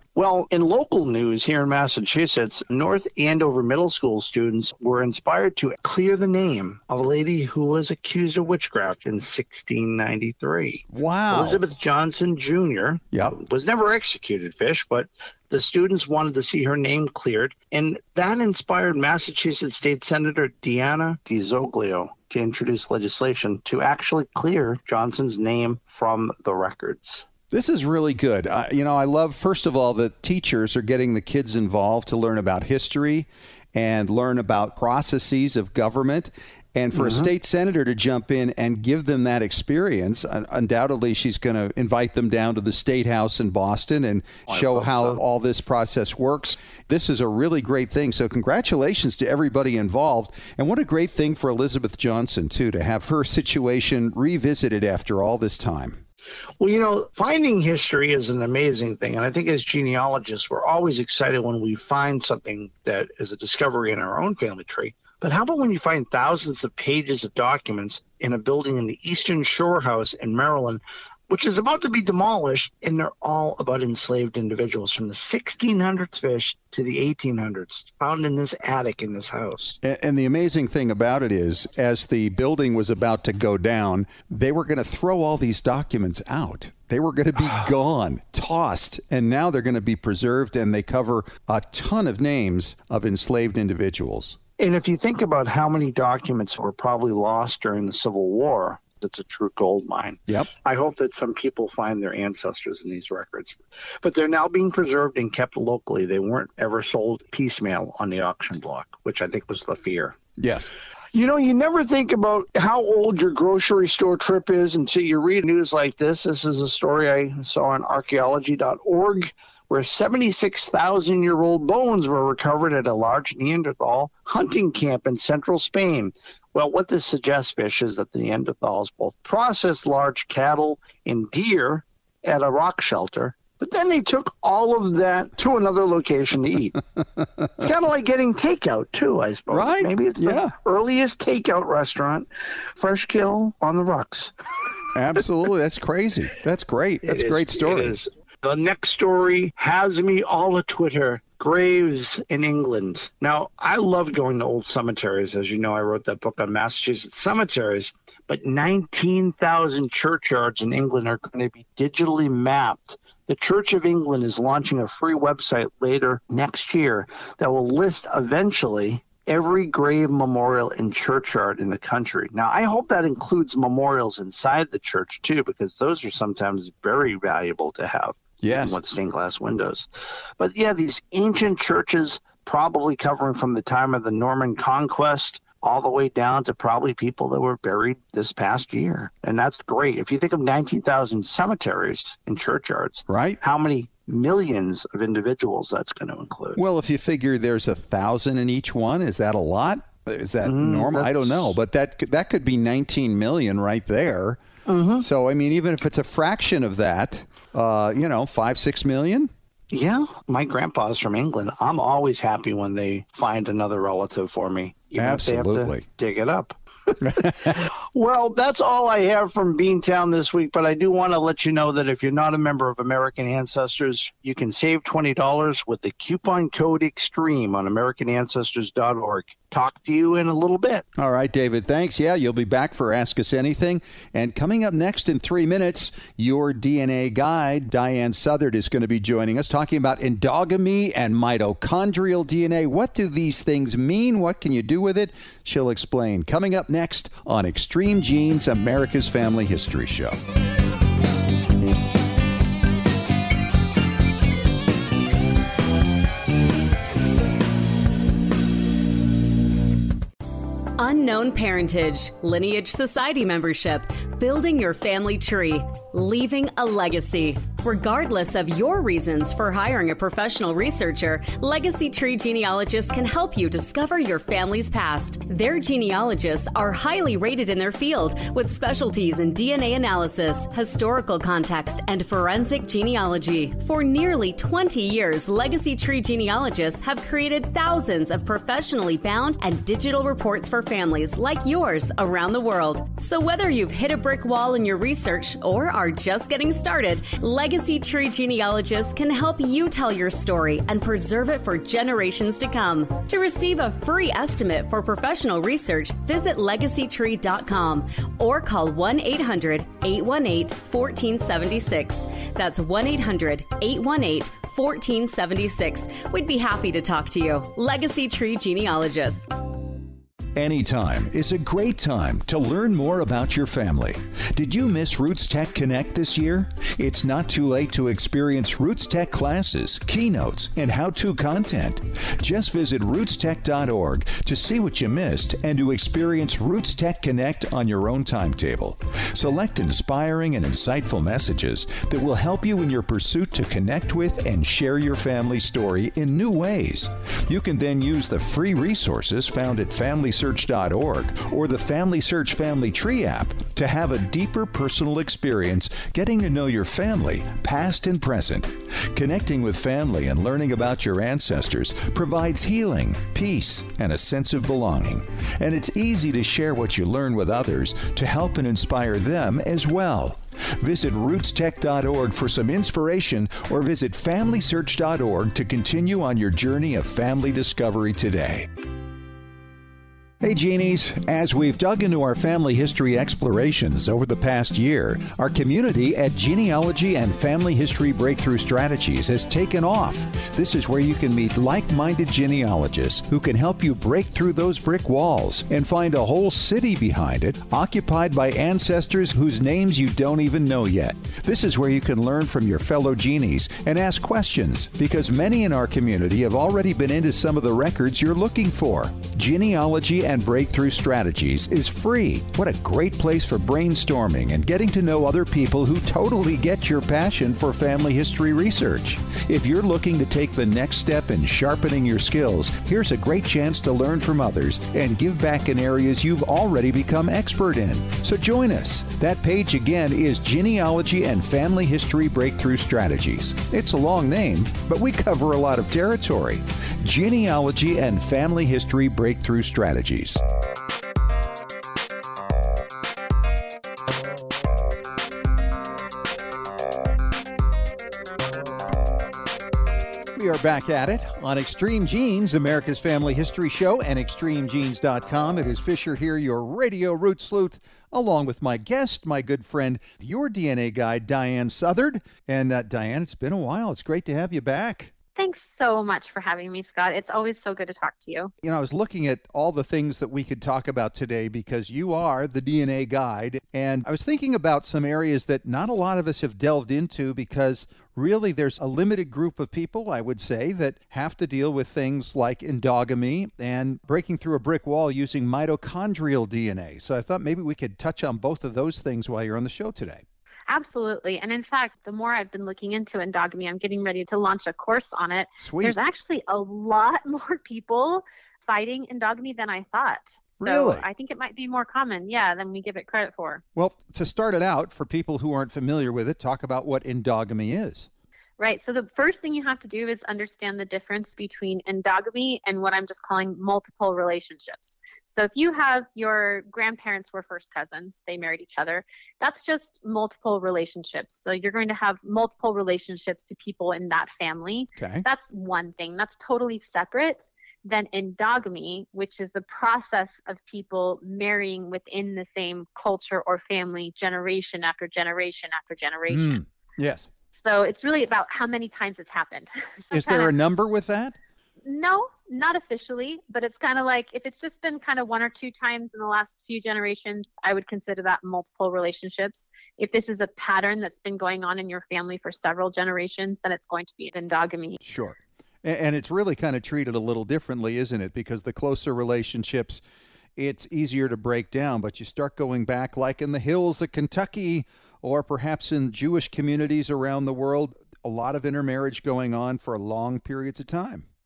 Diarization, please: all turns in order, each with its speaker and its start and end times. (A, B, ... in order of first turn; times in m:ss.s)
0:00.1-0:27.2 A
0:10.9-0:11.6 B
0:27.5-0:56.0 B
0:36.9-0:37.3 A
0:44.5-0:45.2 A
0:56.6-1:19.8 A
1:19.8-1:34.4 B
1:34.6-1:50.2 A
1:50.4-1:50.7 B
1:51.1-2:16.8 A
2:17.6-2:24.3 A
2:19.5-2:20.5 B
2:24.9-2:28.0 B
2:27.0-2:59.9 A
2:58.4-2:58.8 B
3:00.4-3:16.6 A
3:13.1-3:13.4 B
3:16.6-3:24.4 B
3:20.4-3:21.5 A
3:24.6-3:25.0 A
3:25.0-3:29.3 B
3:29.7-3:50.8 A
3:35.0-3:35.8 B
3:37.0-3:37.6 B
3:51.0-4:10.2 B
4:20.8-5:19.2 C
5:20.4-6:18.5 B
6:20.2-7:20.2 B
7:30.1-7:44.9 B
7:45.2-7:48.3 D
7:48.4-8:10.0 B
8:10.5-8:23.4 D
8:15.4-8:15.8 B
8:20.4-8:20.9 B
8:23.6-8:27.9 B
8:28.4-8:56.4 D
8:44.8-8:45.0 B
8:56.1-8:57.1 B
8:57.3-9:00.3 D
8:59.9-9:01.2 B
9:01.6-9:14.8 D
9:14.8-9:19.8 B
9:20.4-9:31.0 B